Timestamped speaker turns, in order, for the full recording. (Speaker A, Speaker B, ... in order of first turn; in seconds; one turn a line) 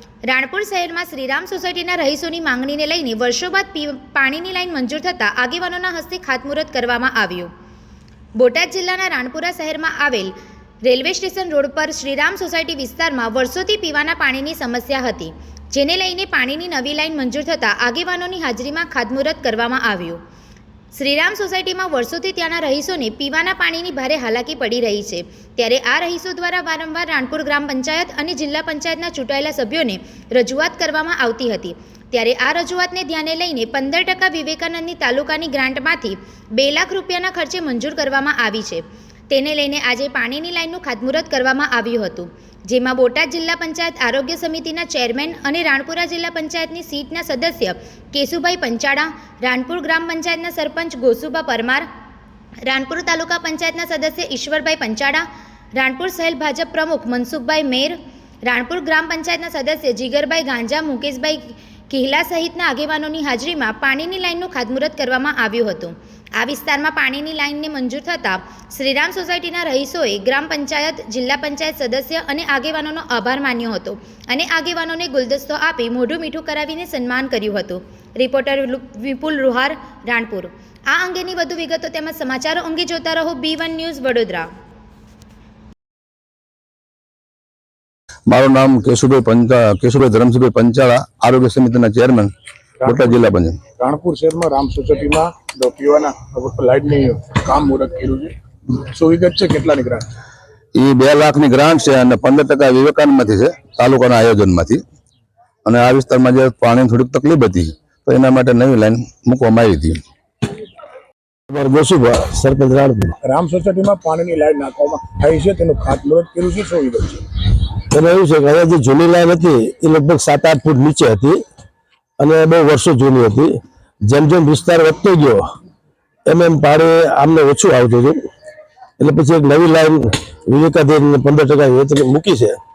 Speaker A: 0.2-7.5
Speaker A: 8.3-10.3
Speaker A: 10.8-20.2
Speaker A: 20.9-51.9
Speaker A: 52.6-84.5
Speaker B: 88.3-92.3
Speaker C: 92.8-93.1
Speaker B: 92.8-93.6
Speaker C: 93.8-100.0
Speaker B: 100.7-104.8
Speaker B: 105.6-110.0
Speaker D: 111.5-113.1
Speaker C: 113.2-117.2
Speaker D: 117.9-121.4
Speaker D: 122.2-125.4
Speaker D: 126.2-128.2
Speaker D: 129.0-132.6